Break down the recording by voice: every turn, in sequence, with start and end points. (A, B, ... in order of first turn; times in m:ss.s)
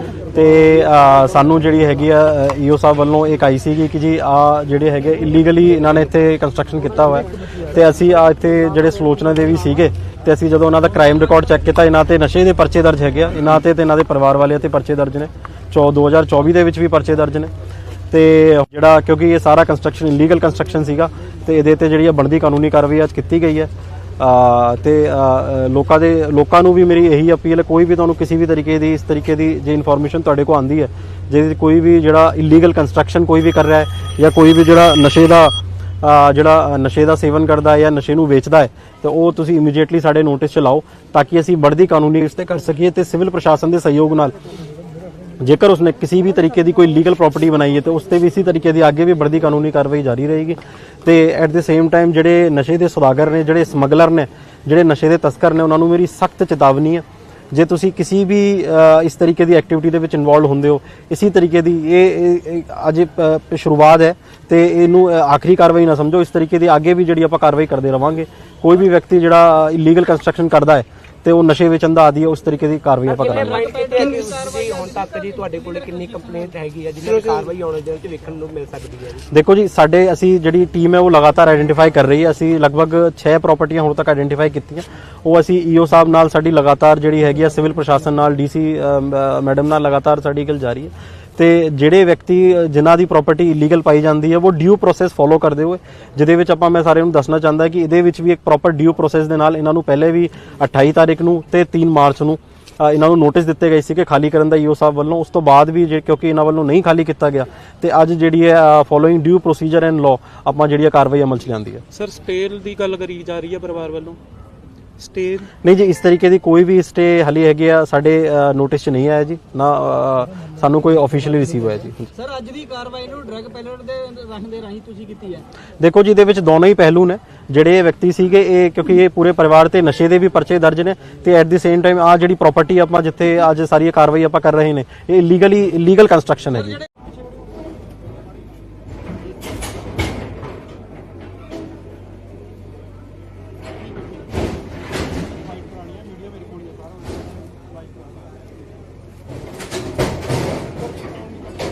0:00.3-0:17.5 A
0:18.1-0:44.3 A
0:45.4-1:13.7 A
1:13.0-1:19.3 B
1:13.2-1:16.5 C
1:17.1-1:17.4 D
1:19.3-1:51.8 A
1:51.9-1:54.2 D
1:55.0-1:55.5 D
1:55.6-2:02.1 A
2:02.2-2:05.5 C
2:05.8-2:16.8 A